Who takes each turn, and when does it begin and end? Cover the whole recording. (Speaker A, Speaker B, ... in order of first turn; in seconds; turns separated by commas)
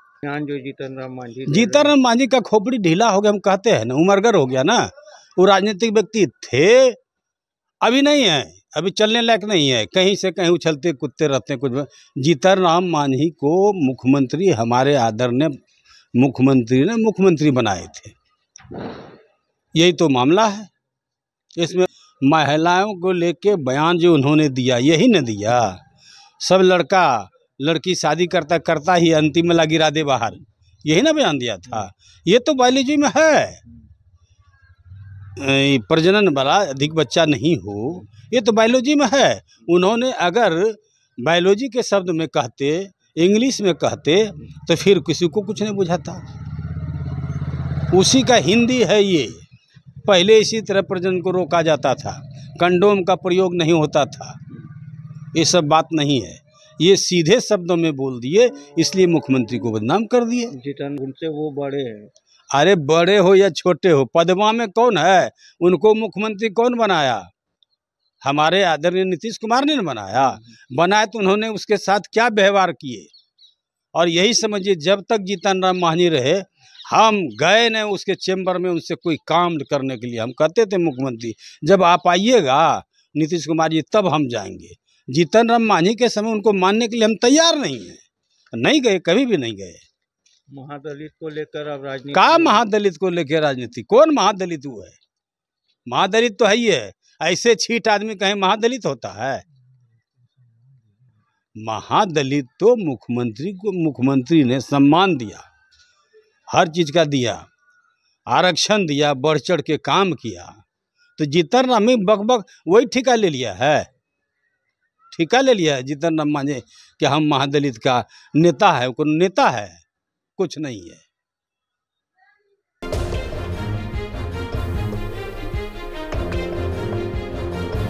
Speaker A: 0.2-1.9, Speaker B: 1.5-7.0, Speaker B: 7.8-15.6, Speaker B: 16.2-18.1, Speaker B: 19.7-20.7, Speaker B: 21.6-25.8, Speaker B: 26.4-33.6, Speaker B: 35.4-46.2, Speaker B: 47.9-49.4, Speaker B: 50.0-54.4, Speaker B: 55.3-60.5, Speaker A: 60.5-62.1, Speaker B: 62.5-67.3, Speaker B: 68.2-73.1, Speaker B: 73.9-88.0, Speaker B: 88.5-89.8, Speaker A: 90.5-92.6, Speaker B: 92.1-95.0, Speaker B: 95.9-99.4, Speaker B: 101.6-105.5, Speaker B: 106.5-107.5, Speaker B: 108.3-110.6, Speaker B: 111.2-113.9, Speaker B: 115.1-119.8, Speaker B: 120.4-121.0